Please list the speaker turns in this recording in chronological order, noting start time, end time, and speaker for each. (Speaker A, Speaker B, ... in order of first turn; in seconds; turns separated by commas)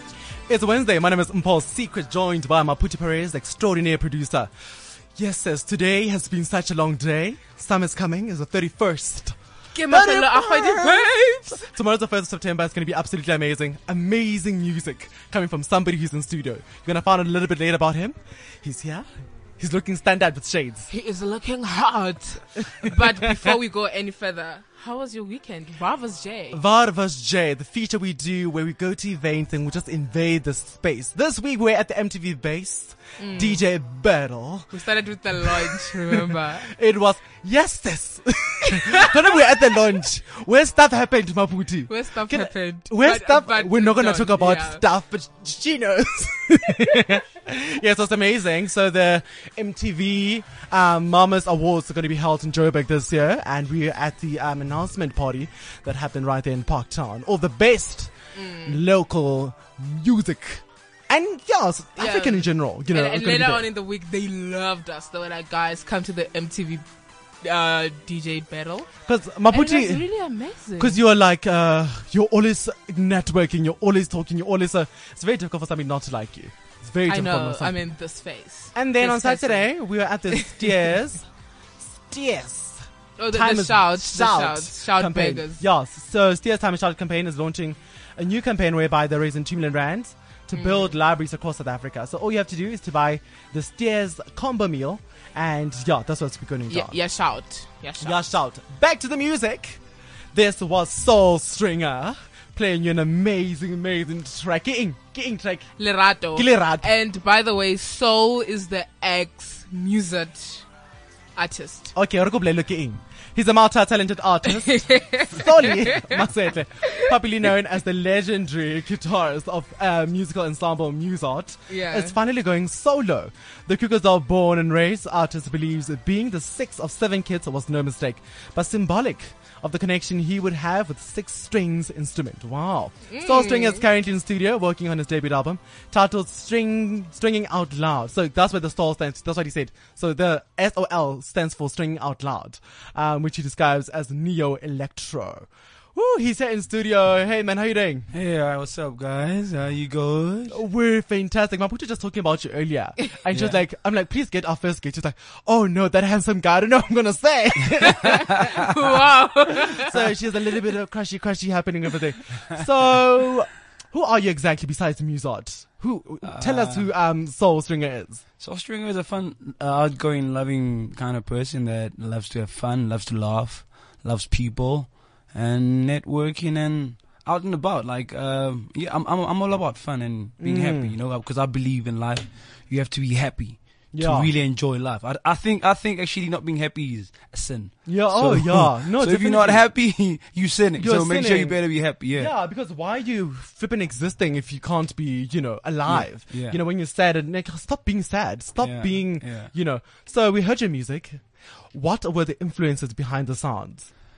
Speaker A: 0.5-4.5, Speaker A: 5.2-19.1, Speaker B: 9.7-11.7, Speaker A: 19.6-20.9, Speaker B: 20.9-26.6, Speaker A: 26.5-34.7, Speaker B: 33.2-33.6, Speaker B: 34.7-36.7, Speaker A: 35.4-58.1, Speaker B: 38.8-39.0, Speaker B: 41.9-44.8, Speaker B: 58.3-58.8, Speaker A: 58.6-63.7, Speaker B: 62.0-66.8, Speaker B: 67.4-68.9, Speaker A: 69.0-70.1, Speaker B: 69.5-71.0, Speaker A: 70.8-77.8, Speaker B: 77.1-79.7, Speaker A: 78.7-81.3, Speaker B: 80.3-80.9, Speaker A: 81.8-97.0, Speaker B: 83.2-85.6, Speaker B: 90.5-90.9, Speaker B: 96.7-98.2, Speaker A: 98.0-99.8, Speaker A: 100.3-105.7, Speaker B: 105.8-110.6, Speaker A: 106.3-106.9, Speaker B: 111.3-111.9, Speaker A: 111.9-148.1, Speaker B: 114.4-116.3, Speaker B: 121.7-122.2, Speaker B: 133.1-133.8, Speaker C: 148.1-150.6, Speaker A: 150.5-158.4, Speaker C: 153.3-153.6, Speaker B: 157.9-159.9, Speaker A: 159.7-168.2, Speaker C: 166.2-166.9, Speaker C: 168.4-192.3, Speaker A: 180.4-180.9, Speaker A: 183.9-184.3, Speaker A: 187.8-189.6, Speaker A: 190.8-191.6, Speaker A: 192.1-203.9, Speaker C: 195.9-196.6, Speaker C: 198.6-199.5